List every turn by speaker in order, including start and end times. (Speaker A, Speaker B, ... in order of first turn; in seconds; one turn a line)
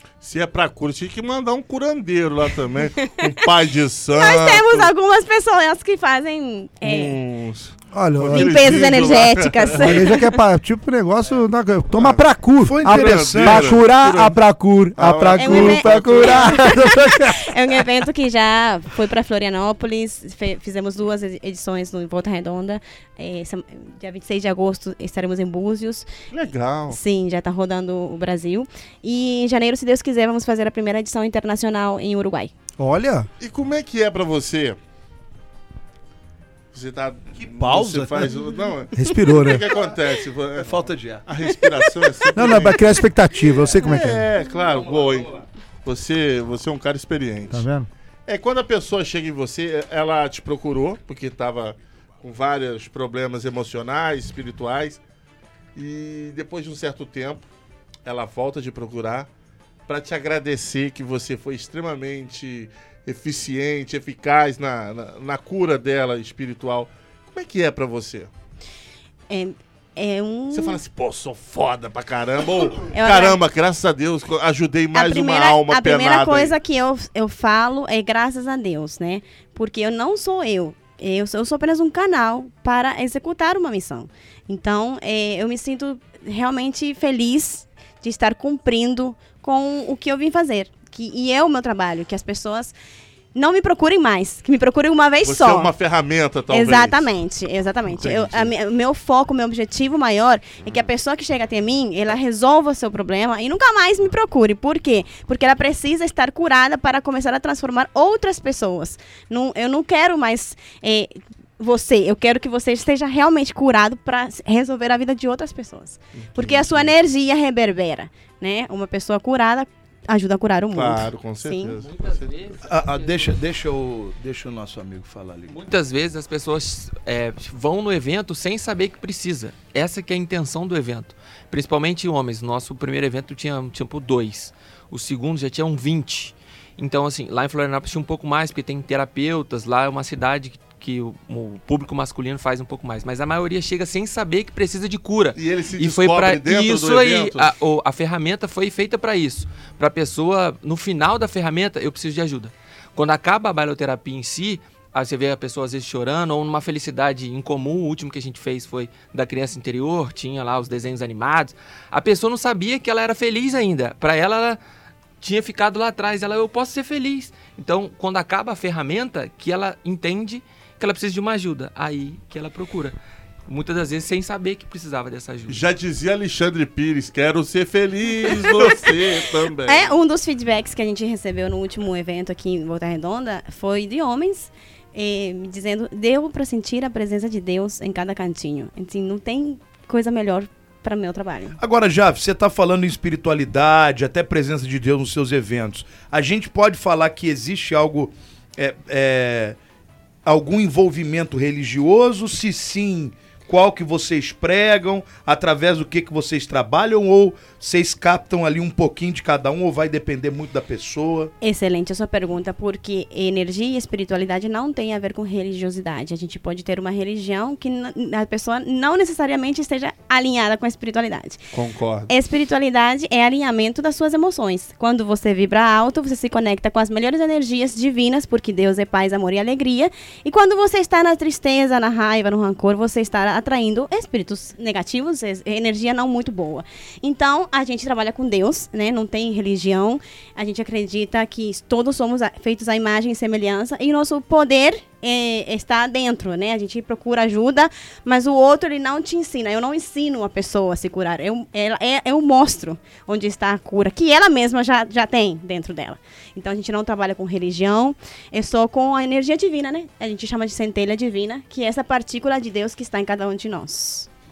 Speaker A: 0.2-4.9
Speaker B: 3.0-3.3
Speaker B: 4.1-7.2
Speaker A: 6.8-10.1
Speaker C: 7.9-8.9
Speaker B: 8.3-10.3
Speaker C: 9.7-17.5
Speaker A: 11.9-12.2
Speaker D: 12.6-13.8
Speaker A: 12.8-14.4
Speaker A: 14.9-16.6
Speaker B: 15.4-26.1
Speaker A: 26.3-27.0
Speaker B: 26.9-32.5
Speaker C: 32.8-33.3
Speaker A: 33.4-34.8
Speaker A: 36.7-43.0
Speaker D: 37.4-38.4
Speaker C: 38.9-39.7
Speaker D: 40.6-41.2
Speaker C: 42.3-44.3
Speaker A: 43.8-47.7
Speaker D: 44.7-45.0
Speaker C: 47.5-47.9
Speaker A: 48.3-55.0
Speaker A: 55.7-57.4
Speaker A: 58.0-59.3
Speaker A: 59.9-68.3
Speaker B: 69.3-70.8
Speaker A: 70.5-76.5
Speaker B: 72.9-73.4
Speaker B: 74.9-92.7
Speaker B: 93.3-95.7
Speaker A: 95.2-97.1
Speaker B: 96.5-121.8
Speaker A: 97.9-98.5
Speaker A: 116.2-116.9
Speaker A: 120.7-122.3
Speaker E: 121.8-123.3
Speaker D: 122.6-125.6
Speaker E: 125.5-164.6
Speaker A: 145.3-147.5
Speaker E: 165.2-172.9
Speaker E: 173.5-175.6
Speaker A: 175.5-179.9
Speaker B: 178.2-178.9
Speaker B: 179.6-191.6
Speaker D: 191.6-199.6
Speaker D: 200.2-211.3
Speaker B: 211.4-221.4
Speaker A: 221.5-222.1
Speaker B: 222.1-264.1